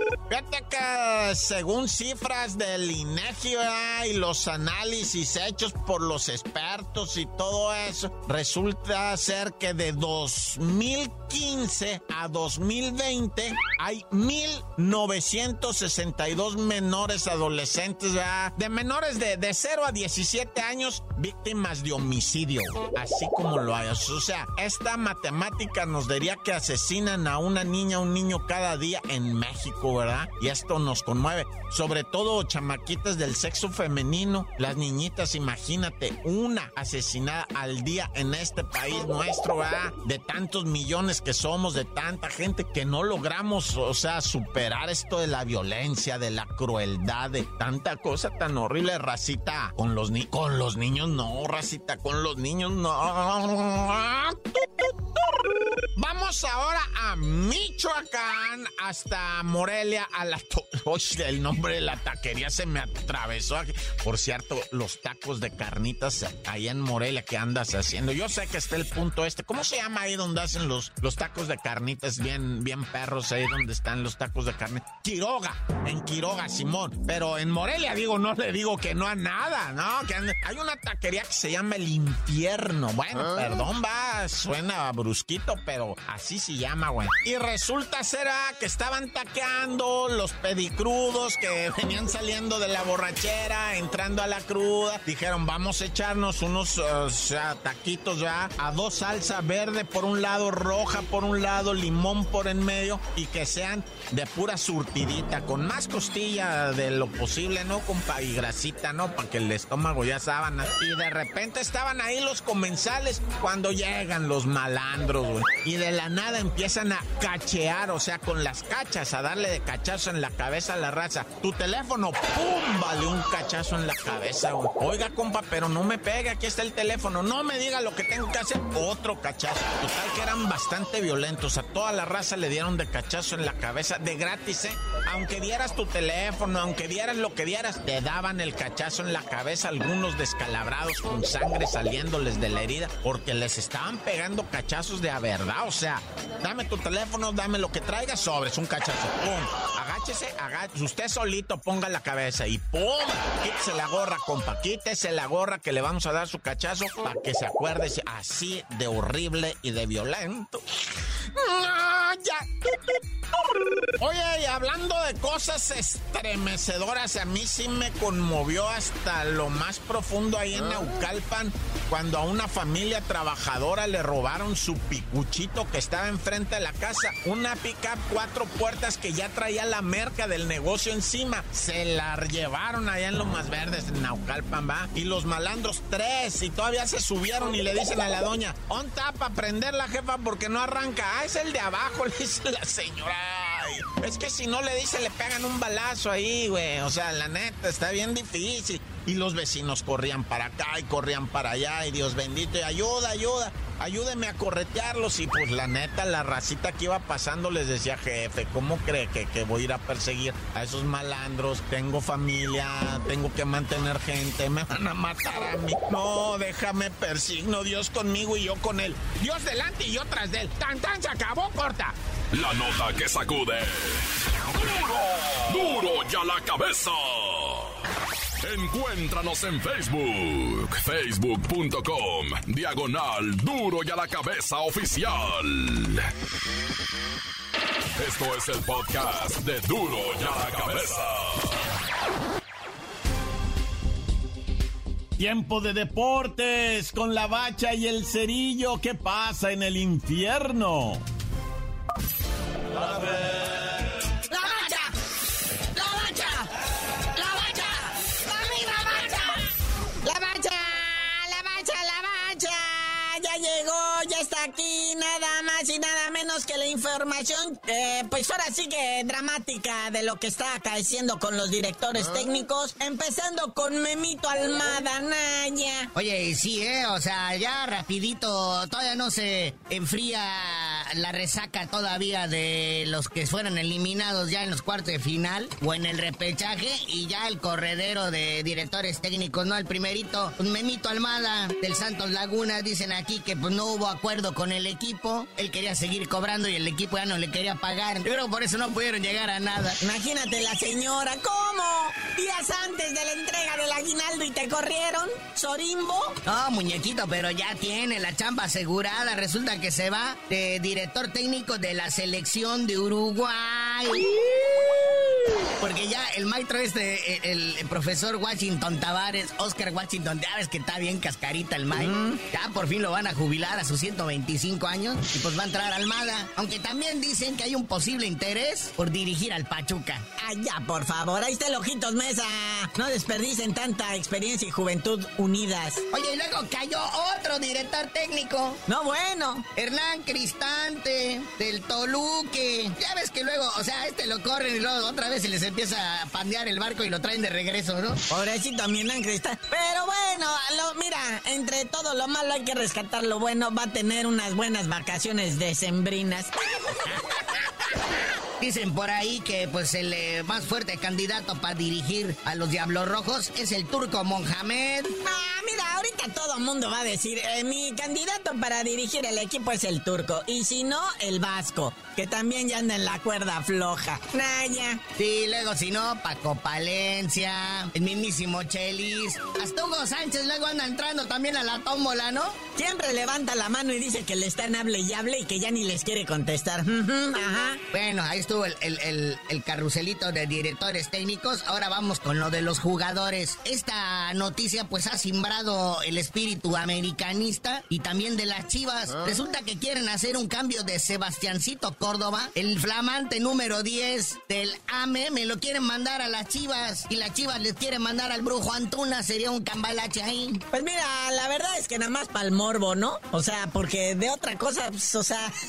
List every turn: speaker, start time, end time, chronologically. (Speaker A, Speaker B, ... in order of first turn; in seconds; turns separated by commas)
Speaker A: 0.3-160.6, Speaker A: 161.3-163.0, Speaker A: 163.8-221.9, Speaker B: 222.3-227.8, Speaker B: 228.4-236.1, Speaker B: 238.0-241.6, Speaker C: 245.2-251.0, Speaker D: 252.8-253.2, Speaker D: 254.2-254.9, Speaker D: 255.7-256.5, Speaker D: 257.1-259.4, Speaker D: 260.0-275.9, Speaker E: 275.9-299.8, Speaker D: 299.8-306.2, Speaker E: 306.2-314.9, Speaker E: 315.6-330.0, Speaker D: 321.7-322.2, Speaker D: 330.2-335.8, Speaker E: 335.9-338.6, Speaker D: 338.7-339.4, Speaker E: 339.6-348.0, Speaker D: 348.1-357.8, Speaker E: 358.4-364.9, Speaker D: 365.0-374.8, Speaker E: 374.9-382.4, Speaker D: 382.6-387.6, Speaker E: 387.7-410.4, Speaker D: 410.5-415.3